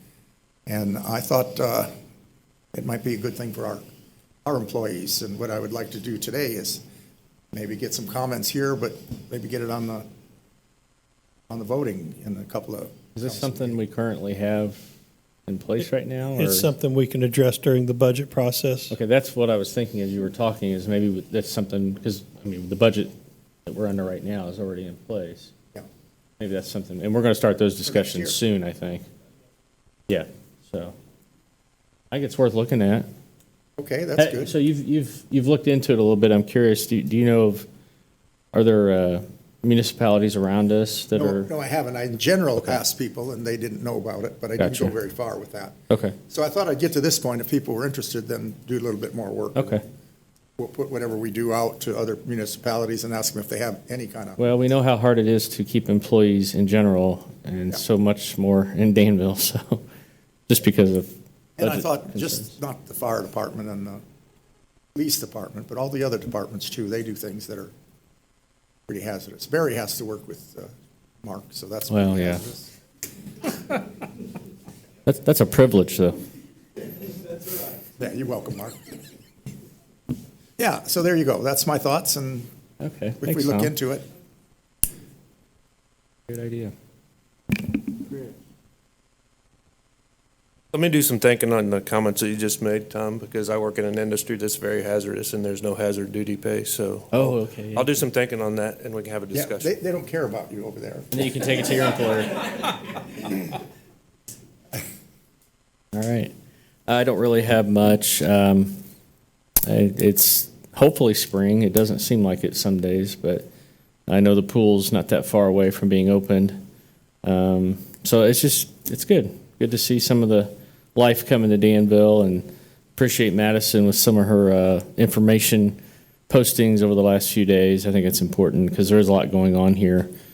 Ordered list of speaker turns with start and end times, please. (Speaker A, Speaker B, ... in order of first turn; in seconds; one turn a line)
Speaker A: 0.7-1.9
Speaker A: 2.7-3.8
Speaker A: 4.4-6.8
Speaker A: 7.5-10.1
Speaker A: 11.5-13.8
Speaker B: 13.2-14.8
Speaker B: 15.5-16.7
Speaker C: 16.4-19.0
Speaker B: 18.9-23.1
Speaker B: 23.6-25.5
Speaker B: 26.4-29.0
Speaker A: 27.9-28.4
Speaker B: 30.1-30.9
Speaker B: 32.1-33.0
Speaker A: 33.8-34.5
Speaker B: 34.2-37.6
Speaker B: 38.5-41.5
Speaker A: 41.1-45.8
Speaker B: 44.6-44.9
Speaker B: 45.9-46.2
Speaker A: 46.3-49.8
Speaker B: 49.5-49.8
Speaker A: 50.6-54.4
Speaker B: 54.4-59.8
Speaker B: 60.5-61.1
Speaker A: 61.6-64.0
Speaker B: 61.6-62.5
Speaker A: 64.9-67.7
Speaker A: 68.9-72.7
Speaker B: 71.9-72.4
Speaker B: 75.0-76.2
Speaker A: 78.0-78.8
Speaker A: 80.6-82.5
Speaker B: 82.8-83.7
Speaker A: 83.2-84.0
Speaker B: 86.3-86.7
Speaker D: 90.7-99.7
Speaker B: 97.1-98.0
Speaker A: 99.3-101.1
Speaker B: 101.1-102.5
Speaker B: 105.9-106.3
Speaker B: 106.9-108.7
Speaker B: 109.7-113.4
Speaker B: 114.1-116.5
Speaker B: 117.2-125.8
Speaker B: 126.3-130.1